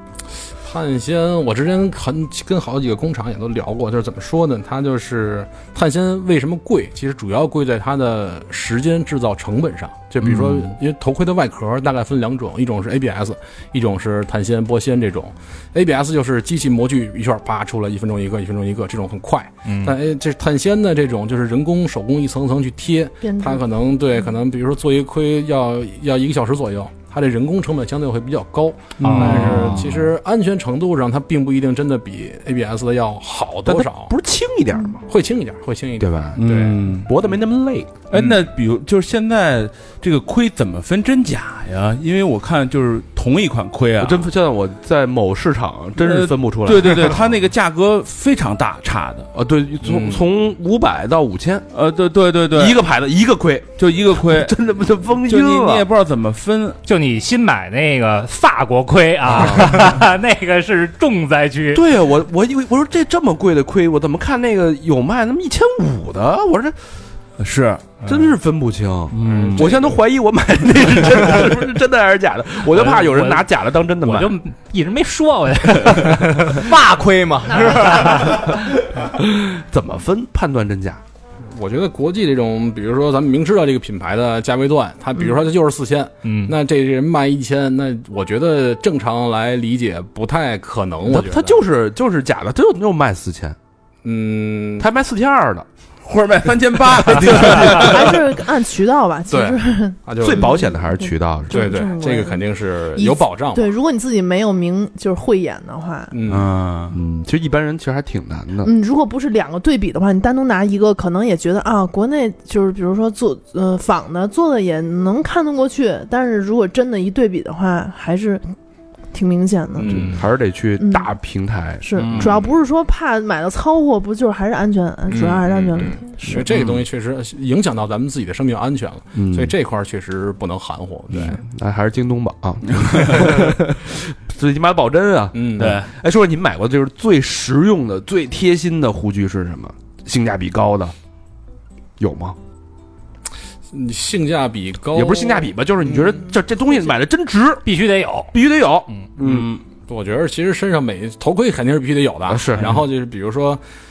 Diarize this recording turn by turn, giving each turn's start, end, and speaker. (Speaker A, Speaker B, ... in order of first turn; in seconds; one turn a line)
Speaker A: 0.6-34.1
Speaker B: 19.7-19.9
Speaker C: 23.2-23.6
Speaker D: 29.0-30.1
Speaker B: 29.0-29.7
Speaker E: 33.7-35.0
Speaker A: 35.1-36.9
Speaker E: 36.0-38.0
Speaker D: 36.4-37.1
Speaker D: 38.1-44.3
Speaker E: 44.0-47.3
Speaker D: 46.0-49.3
Speaker E: 49.3-51.7
Speaker A: 49.8-50.2
Speaker D: 51.7-52.8
Speaker E: 52.5-55.9
Speaker D: 53.8-54.5
Speaker D: 55.3-56.8
Speaker B: 56.9-61.8
Speaker E: 59.4-59.7
Speaker E: 61.7-66.8
Speaker D: 67.4-68.0
Speaker E: 68.0-74.3
Speaker D: 69.1-69.8
Speaker A: 69.2-70.0
Speaker B: 72.7-73.5
Speaker B: 74.0-76.7
Speaker F: 76.5-78.7
Speaker C: 77.5-78.3
Speaker B: 77.8-78.4
Speaker E: 79.0-81.0
Speaker A: 81.5-91.6
Speaker B: 86.2-86.5
Speaker E: 91.1-93.6
Speaker A: 94.0-94.9
Speaker E: 94.8-95.7
Speaker D: 96.0-98.3
Speaker C: 97.5-102.4
Speaker A: 99.3-100.6
Speaker E: 100.2-101.8
Speaker A: 101.5-103.7
Speaker C: 103.0-106.1
Speaker A: 106.1-106.5
Speaker D: 106.3-107.0
Speaker E: 106.9-108.7
Speaker C: 108.6-118.4
Speaker C: 119.1-120.1
Speaker A: 119.8-120.3
Speaker E: 119.9-122.3
Speaker C: 120.8-121.1
Speaker C: 121.8-126.4
Speaker A: 122.0-122.4
Speaker D: 122.0-122.3
Speaker A: 125.1-131.4
Speaker E: 129.1-129.5
Speaker E: 131.1-140.9
Speaker D: 132.7-133.2
Speaker A: 135.3-135.8
Speaker D: 135.6-135.9
Speaker E: 142.0-142.4
Speaker A: 143.7-146.2
Speaker E: 144.9-147.6
Speaker B: 147.7-148.3
Speaker E: 148.3-149.6
Speaker D: 149.2-149.6
Speaker A: 149.9-153.6
Speaker E: 152.3-152.8